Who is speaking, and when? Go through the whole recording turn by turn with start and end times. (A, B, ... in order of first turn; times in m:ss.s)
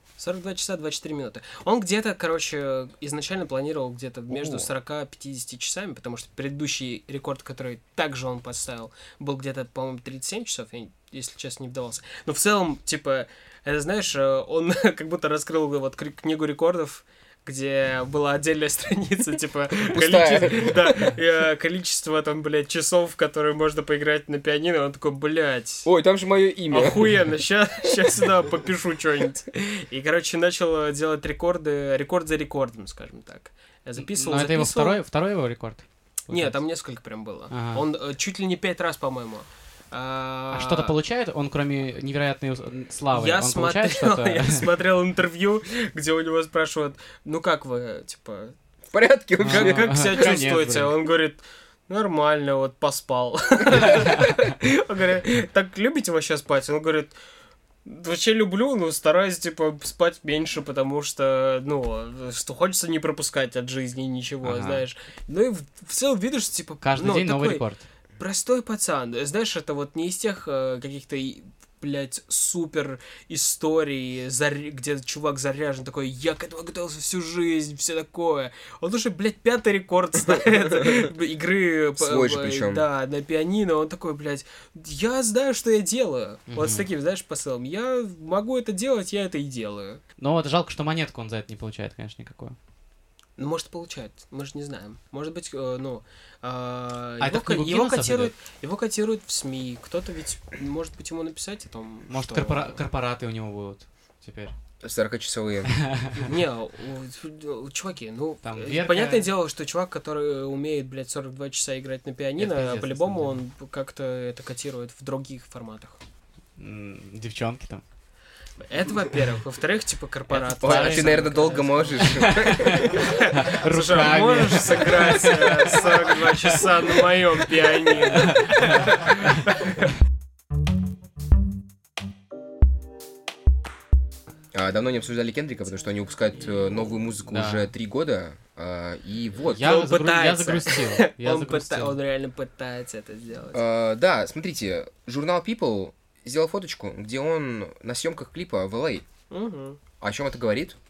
0:00.2-0:25.9 A
0:04.3-0:04.7 B
0:19.8-0:20.9 C
0:25.8-0:27.1 C
0:26.7-0:35.0 A
0:34.0-0:36.5 B
0:36.3-0:41.0 A
0:37.5-0:37.8 B
0:40.5-0:44.8 B
0:43.1-0:48.5 A
0:48.9-0:50.3 C
0:49.4-0:50.9 B
0:49.4-0:57.1 A
0:53.7-0:54.1 B
0:57.8-1:07.6 A
1:04.4-1:04.8 B
1:06.8-1:07.8 B
1:08.2-1:30.0 A
1:22.0-1:22.8 C
1:26.5-1:26.9 B
1:30.2-1:32.6 B
1:33.4-1:42.8 A
1:37.2-1:38.3 B
1:42.1-1:44.5 B
1:44.8-1:45.7 C
1:45.7-1:46.3 B
1:46.2-1:56.0 A
1:48.4-1:49.3 B
1:52.4-1:53.4 B
1:56.6-1:57.8 B
1:58.6-2:01.4 A
2:00.3-2:09.3 B
2:00.6-2:03.0 C
2:02.6-2:09.4 A
2:14.5-2:19.7 C
2:17.2-2:17.7 B
2:19.4-2:22.0 B
2:19.6-2:23.6 A
2:23.5-2:29.0 C
2:29.3-2:29.8 A
2:30.0-2:30.8 C